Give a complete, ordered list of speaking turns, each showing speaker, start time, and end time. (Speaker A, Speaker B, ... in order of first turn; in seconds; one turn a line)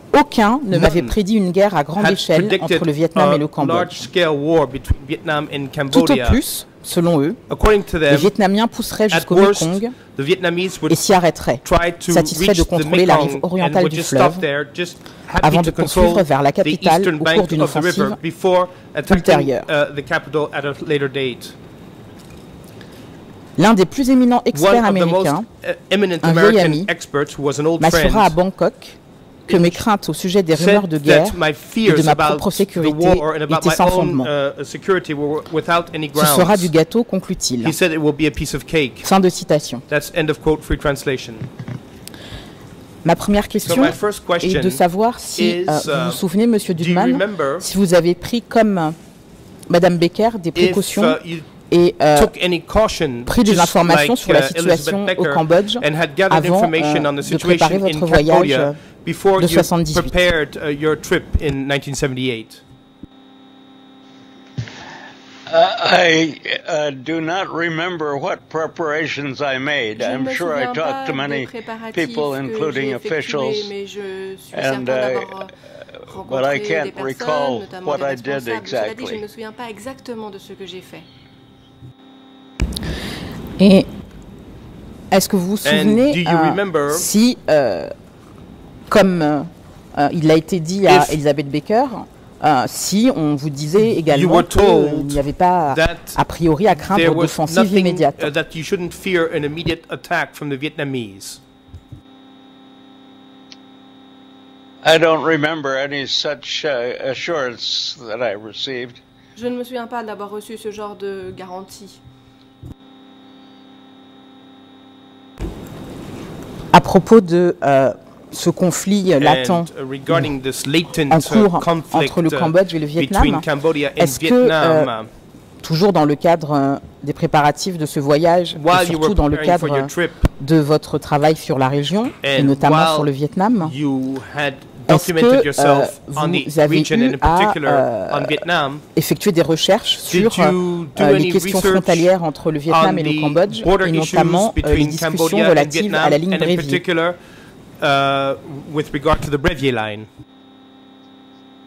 Speaker A: 0.1-4.1
Speaker B: 0.7-1.1
Speaker B: 2.0-6.4
Speaker A: 5.9-7.4
Speaker B: 7.5-8.3
Speaker A: 8.1-9.9
Speaker B: 9.1-11.1
Speaker A: 10.9-14.4
Speaker B: 11.6-21.5
Speaker A: 15.4-18.2
Speaker A: 19.1-19.7
Speaker A: 23.6-25.5
Speaker B: 24.5-28.4
Speaker A: 26.2-26.9
Speaker A: 27.8-34.3
Speaker B: 29.5-29.8
Speaker B: 30.5-36.7
Speaker A: 36.1-37.8
Speaker B: 37.6-39.1
Speaker A: 39.0-39.8
Speaker B: 39.9-41.5
Speaker A: 43.0-49.0
Speaker B: 43.6-44.8
Speaker B: 45.4-46.2
Speaker B: 46.8-47.7
Speaker A: 49.7-51.2
Speaker B: 50.5-51.5
Speaker A: 51.7-52.3
Speaker B: 52.1-62.6
Speaker A: 53.2-58.8
Speaker A: 59.4-60.2
Speaker C: 65.5-73.7
Speaker D: 69.9-81.1
Speaker C: 74.5-75.5
Speaker C: 76.0-79.2
Speaker A: 83.6-83.9
Speaker A: 85.1-87.9
Speaker B: 85.6-87.1
Speaker A: 88.9-98.3
Speaker B: 90.9-91.2
Speaker B: 94.0-96.2
Speaker B: 96.8-101.4
Speaker C: 104.8-109.0
Speaker D: 109.3-112.0
Speaker A: 116.7-120.3
Speaker B: 119.2-125.1
Speaker A: 121.1-123.5
Speaker A: 124.0-124.9
Speaker A: 125.6-133.7
Speaker B: 128.5-130.3
Speaker B: 132.2-133.1
Speaker B: 133.6-138.8
Speaker A: 134.9-146.8
Speaker B: 140.1-142.1
Speaker B: 142.7-147.2
Speaker B: 147.8-150.1